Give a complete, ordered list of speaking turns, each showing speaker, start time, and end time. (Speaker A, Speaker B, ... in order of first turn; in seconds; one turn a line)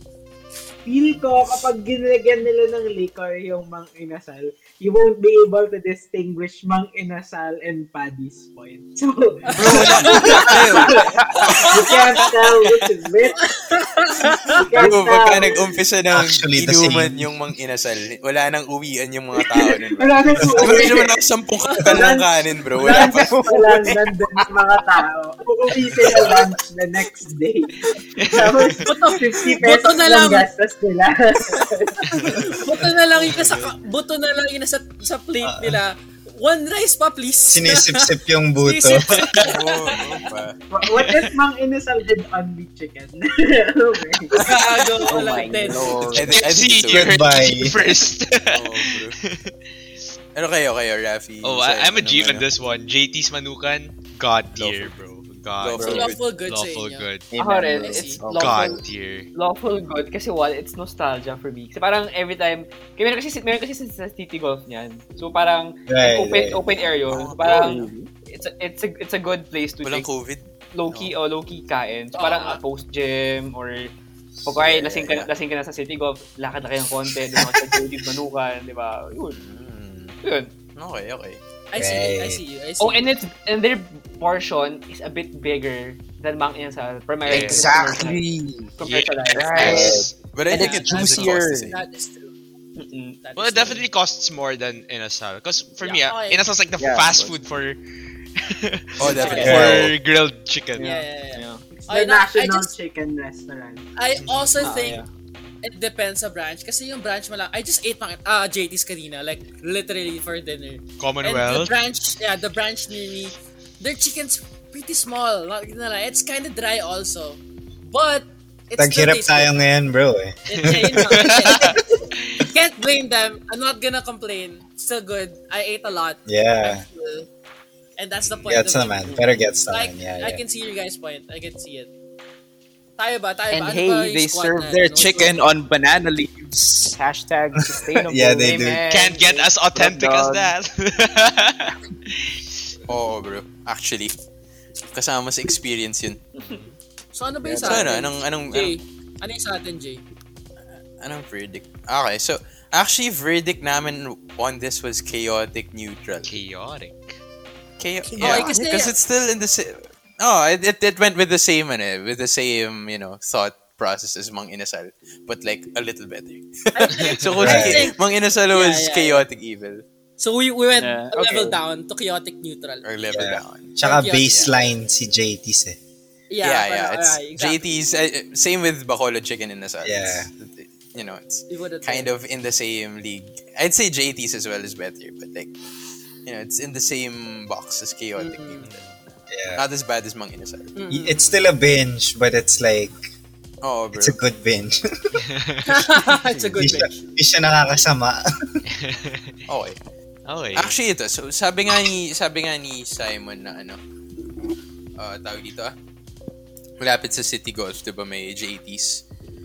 Speaker A: 0.8-13.5
Speaker B: 9.5-12.2
Speaker C: 9.6-11.1
Speaker D: 9.6-11.7
Speaker B: 13.4-14.6
Speaker A: 14.3-15.7
Speaker C: 14.7-23.4
Speaker E: 16.1-17.3
Speaker A: 19.4-21.2
Speaker B: 21.6-22.0
Speaker A: 21.8-32.3
Speaker D: 22.8-24.5
Speaker D: 26.0-26.4
Speaker F: 28.1-28.8
Speaker B: 28.8-30.5
Speaker B: 31.6-40.3
Speaker F: 32.1-32.4
Speaker F: 33.2-33.7
Speaker C: 33.3-33.6
Speaker E: 35.4-35.8
Speaker E: 37.5-39.2
Speaker F: 39.1-39.5
Speaker C: 39.3-40.6
Speaker A: 40.7-44.5
Speaker F: 40.8-41.3
Speaker B: 44.3-46.2
Speaker D: 45.0-46.4
Speaker C: 46.0-47.2
Speaker F: 46.2-49.5
Speaker E: 46.9-47.8
Speaker C: 48.5-49.2
Speaker C: 50.3-52.4
Speaker F: 51.4-57.3
Speaker C: 54.6-55.0
Speaker C: 55.5-56.2
Speaker D: 55.7-56.1
Speaker B: 55.9-57.1
Speaker D: 57.3-58.8
Speaker G: 57.4-58.8
Speaker B: 57.8-58.2
Speaker F: 58.3-59.3
Speaker G: 59.3-70.1
Speaker E: 65.9-66.6
Speaker C: 66.7-67.9
Speaker D: 67.4-68.1
Speaker C: 69.8-71.2
Speaker G: 70.7-73.9
Speaker B: 72.2-72.6
Speaker D: 74.5-75.2
Speaker G: 74.5-79.4
Speaker C: 79.3-80.2
Speaker G: 80.2-80.5
Speaker C: 80.8-81.4
Speaker B: 81.7-83.1
Speaker E: 81.7-82.4
Speaker G: 82.8-88.2
Speaker F: 87.2-87.7
Speaker D: 87.3-88.7
Speaker G: 88.8-90.0
Speaker C: 88.8-91.8
Speaker D: 89.3-91.7
Speaker E: 89.6-90.0
Speaker B: 90.5-92.3
Speaker G: 92.8-93.2
Speaker B: 93.2-93.8
Speaker F: 93.4-97.8
Speaker B: 95.8-96.5
Speaker D: 96.8-97.3
Speaker F: 98.3-100.9
Speaker C: 99.0-99.9
Speaker B: 99.0-99.7
Speaker E: 99.4-99.9
Speaker G: 100.8-101.6
Speaker B: 100.8-102.7
Speaker A: 101.8-103.8
Speaker B: 104.0-105.0
Speaker F: 104.2-104.5
Speaker G: 104.6-105.0
Speaker D: 104.6-105.0
Speaker B: 105.6-119.5
Speaker F: 111.0-111.7
Speaker E: 118.8-121.7
Speaker B: 120.5-127.3
Speaker F: 120.6-121.8
Speaker E: 126.3-126.8
Speaker B: 128.0-131.9
Speaker E: 128.4-130.4
Speaker B: 133.0-135.4
Speaker D: 133.5-138.8
Speaker E: 137.6-138.8
Speaker G: 138.4-139.4
Speaker F: 138.9-142.4
Speaker D: 139.6-140.5
Speaker C: 142.9-144.1
Speaker C: 144.8-146.2
Speaker G: 146.3-146.6
Speaker F: 146.4-146.7
Speaker B: 147.1-150.0
Speaker D: 147.4-148.0
Speaker C: 147.6-148.8
Speaker C: 151.0-156.3
Speaker F: 156.2-157.1
Speaker C: 157.8-169.8
Speaker D: 158.0-158.6
Speaker B: 158.2-158.9
Speaker B: 166.7-168.0
Speaker E: 167.4-167.9
Speaker B: 168.5-169.2
Speaker B: 170.2-172.8
Speaker D: 170.7-171.6
Speaker C: 172.8-173.7
Speaker E: 173.1-175.8
Speaker B: 173.8-174.5
Speaker C: 174.2-174.5
Speaker B: 176.3-177.6
Speaker C: 176.4-185.5
Speaker E: 179.8-180.3
Speaker B: 181.5-182.1
Speaker C: 186.2-188.8
Speaker B: 188.2-188.7
Speaker F: 188.6-189.0
Speaker E: 189.3-189.6
Speaker C: 189.5-190.7
Speaker B: 190.7-191.4
Speaker E: 190.9-193.0
Speaker C: 193.6-194.2
Speaker E: 193.9-195.2
Speaker F: 195.2-195.7
Speaker B: 195.7-197.0
Speaker C: 196.4-196.7
Speaker E: 196.6-198.6
Speaker F: 198.7-199.3
Speaker C: 199.5-199.8
Speaker F: 200.3-200.7
Speaker C: 200.5-203.8
Speaker C: 205.0-205.7
Speaker C: 206.8-209.0